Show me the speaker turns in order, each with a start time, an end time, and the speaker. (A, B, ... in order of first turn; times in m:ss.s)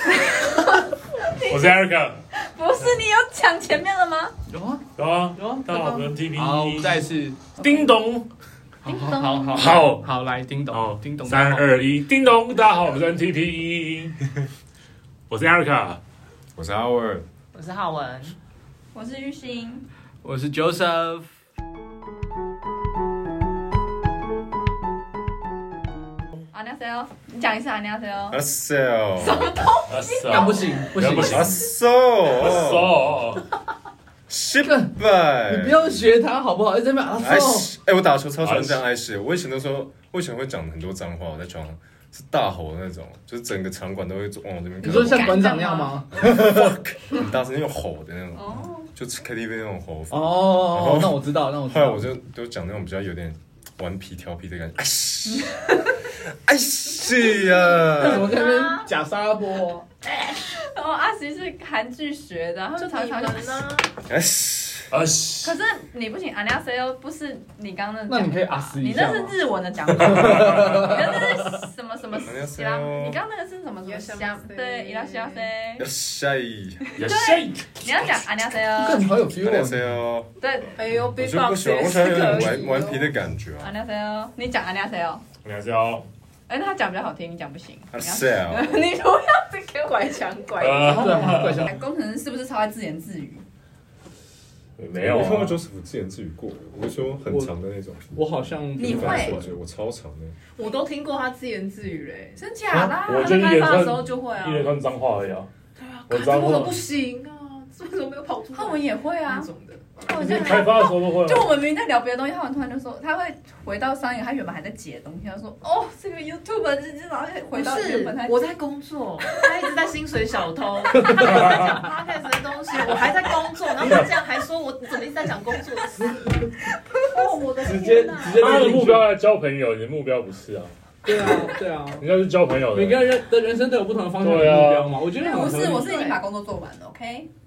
0:00.2-0:01.7 A
0:01.5-0:02.2 B
0:02.3-0:04.3 A
0:04.5-0:04.8 C
0:05.0-0:08.3 B
0:05.4-0:07.5 C
0:07.6-0:07.9 A
0:08.8-0:11.6 C
0:08.8-0:09.7 A
0:09.5-0:10.1 B
0:10.7-0:14.4 B
0:15.3-0:16.0 B
0:16.6-0:17.2 D
0:17.5-0:18.4 E
0:18.9-0:19.9 A
0:20.2-0:21.3 C
0:26.5-0:28.4 A
0:28.3-0:29.4 D
0:29.2-0:30.9 A
0:29.9-0:31.7 B
0:30.4-0:31.5 C
0:31.1-0:33.0 D
0:32.3-0:33.5 B
0:34.3-0:36.0 D
0:34.6-0:34.9 C
0:35.5-0:37.7 C
0:37.2-0:45.6 D
0:38.4-0:38.8 B
0:44.8-0:46.0 A
0:44.8-0:46.4 C
0:46.1-0:58.4 D
0:48.4-0:48.9 A
0:50.1-0:52.0 C
0:58.0-0:59.8 C
0:58.0-0:58.9 E
1:00.2-1:03.6 A
1:02.8-1:04.0 E
1:04.1-1:04.9 D
1:04.9-1:05.6 B
1:05.4-1:15.8 A
1:08.1-1:09.3 C
1:10.1-1:11.5 C
1:12.2-1:13.2 D
1:13.8-1:15.5 E
1:15.8-1:16.8 D
1:16.9-1:19.1 A
1:17.0-1:18.2 B
1:18.8-1:19.8 C
1:19.3-1:20.3 D
1:20.4-1:20.8 A
1:20.7-1:23.0 E
1:21.1-1:23.8 D
1:23.6-1:25.2 A
1:25.4-1:26.1 B
1:26.5-1:30.4 A
1:27.9-1:28.8 D
1:29.8-1:31.5 E
1:30.6-1:31.7 B
1:30.9-1:31.7 C
1:31.1-1:33.4 A
1:34.8-1:35.6 B
1:35.0-1:38.1 D
1:38.1-1:39.5 C
1:38.7-1:40.4 D
1:38.8-1:39.4 A
1:40.6-1:44.8 E
1:42.4-1:43.4 A
1:42.7-1:45.5 B
1:45.8-1:50.7 E
1:46.1-1:46.8 B
1:48.5-1:49.5 A
1:50.0-1:58.5 A
1:50.2-1:51.5 B
1:57.5-2:06.5 E
1:59.2-1:59.6 A
2:01.0-2:01.3 C
2:01.2-2:01.6 B
2:07.1-2:08.6 A
2:07.2-2:08.5 E
2:07.6-2:09.1 C
2:08.3-2:10.7 B
2:11.0-2:12.0 C
2:12.0-2:13.2 B
2:12.7-2:15.9 C
2:14.2-2:15.0 B
2:15.2-2:16.2 E
2:15.2-2:17.3 A